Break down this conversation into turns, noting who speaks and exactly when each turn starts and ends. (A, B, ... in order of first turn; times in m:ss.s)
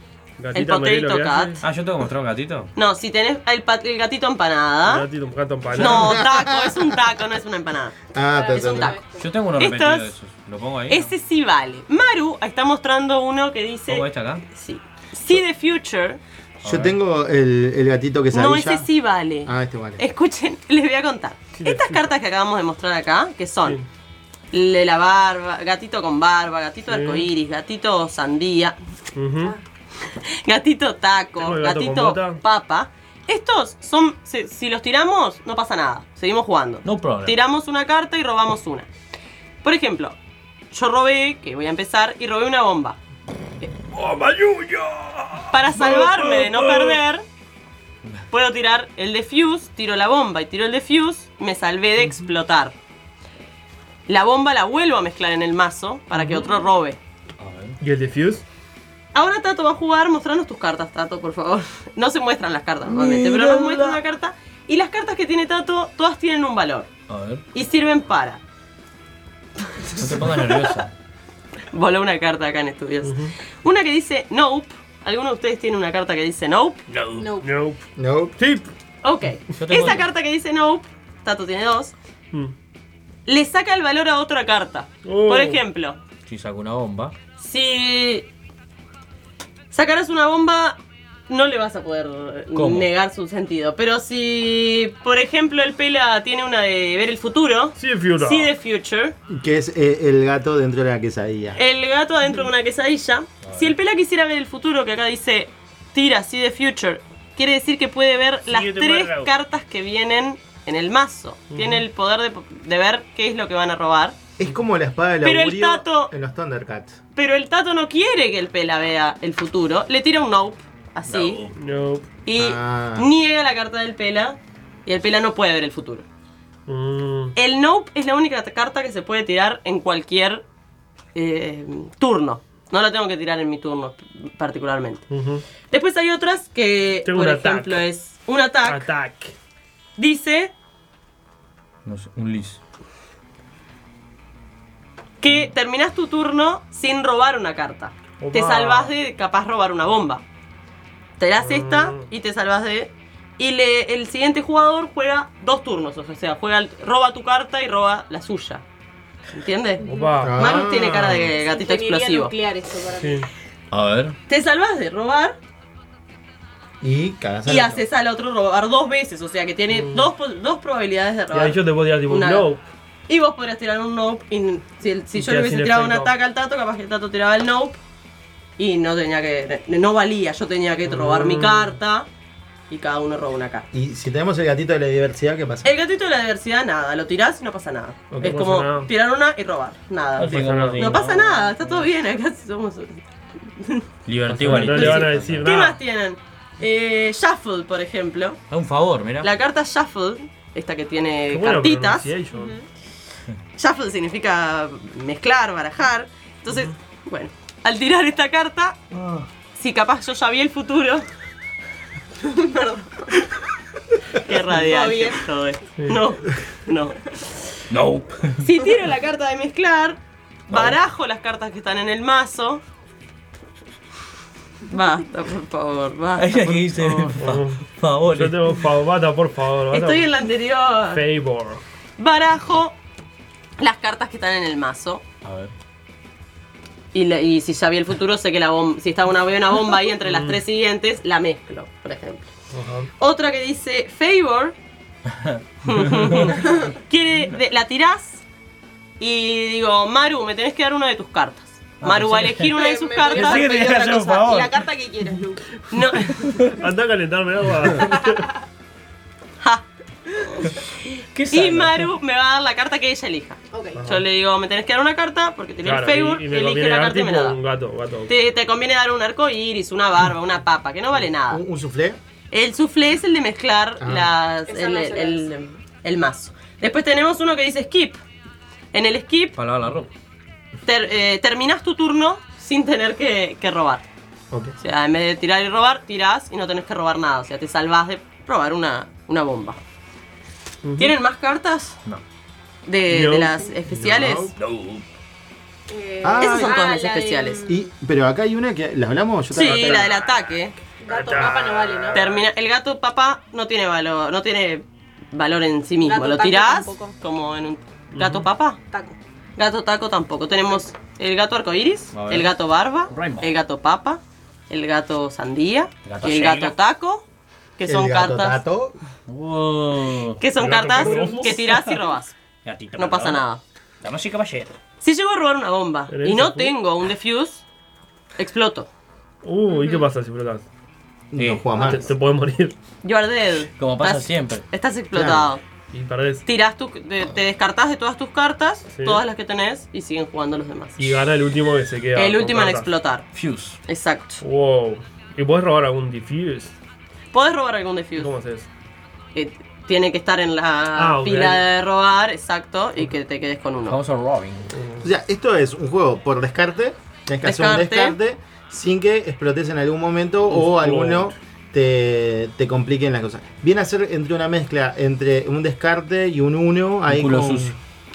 0:00.4-0:01.6 A
0:00.5-0:01.6 B
0:01.6-0:02.7 C
0:02.8-0:05.1 B
0:04.8-0:06.2 A
0:05.8-0:07.0 D
0:05.8-0:08.0 B
0:08.1-0:09.0 D
0:08.3-0:09.2 E
0:08.5-0:09.0 B
0:09.1-0:11.1 C
0:09.6-0:10.2 B
0:10.9-0:16.2 B
0:13.9-0:14.4 C
0:16.6-0:17.0 C
0:16.6-0:18.9 D
0:18.3-0:23.8 B
0:19.4-0:20.0 D
0:21.6-0:22.1 A
0:24.5-0:28.8 B
0:26.9-0:27.3 A
0:29.2-0:29.6 A
0:30.0-0:38.9 B
0:31.4-0:32.4 A
0:36.8-0:37.4 C
0:39.6-0:40.2 B
0:40.7-0:43.0 B
0:43.9-0:46.5 A
0:45.5-0:47.2 B
0:48.3-0:52.8 B
0:54.1-0:57.0 B
0:56.2-0:56.5 A
0:57.4-0:57.8 C
0:57.8-0:58.4 A
0:59.1-1:06.9 B
1:02.9-1:04.0 C
1:07.1-1:07.4 C
1:07.5-1:08.4 B
1:09.9-1:10.9 C
1:11.7-1:16.8 B
1:13.0-1:13.3 A
1:16.9-1:17.3 C
1:17.2-1:17.5 E
1:17.4-1:17.8 A
1:18.0-1:18.4 D
1:18.4-1:18.7 A
1:19.0-1:21.9 B
1:19.5-1:20.1 C
1:23.2-1:26.0 B
1:25.0-1:25.6 A
1:26.2-1:27.2 C
1:27.4-1:28.3 B
1:29.7-1:39.2 B
1:32.5-1:32.9 C
1:37.8-1:38.5 A
1:39.3-1:41.6 D
1:41.6-1:54.2 B
1:43.4-1:43.8 C
1:48.5-1:49.3 A
1:51.5-1:51.8 A
1:54.4-1:57.0 D
1:55.2-1:56.1 B
1:57.2-2:01.4 B
2:01.0-2:01.6 C
2:01.6-2:02.1 A
2:02.2-2:06.0 B
2:02.4-2:03.1 D
2:06.7-2:07.3 A
2:07.4-2:10.4 B
2:11.2-2:15.1 B
2:15.1-2:15.4 A
2:15.7-2:18.9 B
2:17.0-2:17.8 A
2:18.6-2:19.4 A
2:20.0-2:20.5 B
2:21.8-2:22.6 C
2:25.2-2:30.2 B
2:28.2-2:28.9 A
2:31.2-2:38.6 B
2:31.4-2:32.1 A
2:39.3-2:42.4 B
2:39.8-2:40.1 E
2:39.9-2:40.4 A
2:40.2-2:41.2 D
2:41.4-2:43.2 E
2:43.0-2:43.3 A
2:43.7-2:44.2 C
2:44.3-2:45.4 B
2:46.8-2:47.8 D
2:47.4-2:52.5 B
2:49.7-2:50.1 A
2:51.3-2:52.6 A
2:53.1-2:57.8 B
2:55.1-2:56.1 A
2:58.6-3:02.1 B
3:00.9-3:01.8 A
3:02.7-3:03.7 B
3:03.7-3:05.8 D
3:05.6-3:13.0 B
3:08.1-3:08.9 A
3:10.2-3:11.8 C
3:10.2-3:11.0 A
3:13.6-3:13.8 B
3:14.0-3:15.6 C
3:14.2-3:15.8 A
3:14.5-3:18.4 B
3:18.5-3:19.3 C
3:19.2-3:22.2 B
3:21.3-3:22.6 A
3:23.6-3:28.8 B
3:28.9-3:29.2 C
3:29.6-3:31.0 B
3:32.2-3:33.1 E
3:34.1-3:37.3 B
3:34.6-3:35.2 E
3:37.7-3:38.7 C
3:38.4-3:42.6 B
3:40.5-3:40.8 C
3:44.7-3:47.2 B
3:46.2-3:48.7 C
3:47.2-3:50.1 A
3:49.7-3:51.0 B
3:50.9-3:51.6 A
3:52.0-3:52.8 B
3:53.6-3:55.0 B
3:55.2-3:55.5 C
3:56.9-4:02.3 B
4:00.0-4:00.4 A
4:02.5-4:02.9 A
4:03.0-4:04.6 B
4:05.2-4:06.3 C
4:05.6-4:08.2 B
4:09.0-4:13.6 B
4:11.8-4:14.6 C
4:12.5-4:15.4 E
4:15.7-4:16.4 B
4:16.2-4:16.6 C
4:16.5-4:18.3 A
4:17.8-4:18.3 E
4:19.4-4:19.6 B
4:20.9-4:27.4 B
4:21.1-4:21.9 C
4:23.5-4:23.8 E
4:23.8-4:24.1 A
4:25.6-4:28.1 A
4:28.1-4:31.4 B
4:31.3-4:32.0 D
4:32.3-4:38.0 B
4:33.8-4:34.1 D
4:34.4-4:35.3 E
4:38.7-4:39.4 B
4:39.4-4:39.9 C
4:40.6-4:43.8 B
4:44.3-4:44.6 D
4:44.6-4:49.6 B
4:50.6-4:51.0 A
4:50.8-4:51.8 B
4:52.7-4:54.3 B
4:52.9-4:53.5 A
4:53.8-4:54.3 D
4:54.4-4:54.8 C
4:55.7-4:57.7 E
4:56.0-4:56.7 D
4:56.2-4:57.4 B
4:57.4-4:59.9 D
4:59.3-5:00.6 B
4:59.4-4:59.8 A
5:00.8-5:02.0 E
5:00.9-5:02.2 A
5:01.9-5:08.6 B
5:05.8-5:06.9 E
5:07.9-5:08.3 A
5:08.7-5:09.0 E
5:09.4-5:17.0 B
5:11.9-5:12.3 C
5:12.9-5:13.3 C
5:15.8-5:16.6 C
5:17.6-5:18.4 B
5:17.6-5:18.8 D
5:19.1-5:21.8 C
5:20.2-5:22.2 B
5:20.4-5:21.5 A
5:22.4-5:23.2 C
5:22.8-5:23.4 B
5:23.8-5:24.5 C
5:24.8-5:27.4 B
5:25.9-5:26.6 A
5:28.2-5:28.7 B
5:29.2-5:30.4 A
5:31.1-5:31.9 D
5:31.2-5:31.4 C
5:31.6-5:32.6 A
5:32.8-5:35.4 B
5:33.6-5:34.4 C
5:34.9-5:35.3 D
5:35.7-5:36.2 A
5:36.2-5:41.1 B
5:38.7-5:39.0 A
5:40.8-5:42.7 A
5:41.9-5:43.1 B
5:43.1-5:43.6 C
5:43.7-5:44.2 B
5:44.2-5:46.5 A
5:47.1-5:48.1 B
5:48.0-5:48.5 A
5:49.1-5:53.8 B
5:50.7-5:51.5 A
5:53.6-5:54.5 C
5:54.6-5:54.8 A
5:54.8-6:07.6 D
5:57.2-5:58.0 B
6:00.3-6:01.1 A
6:06.9-6:07.6 C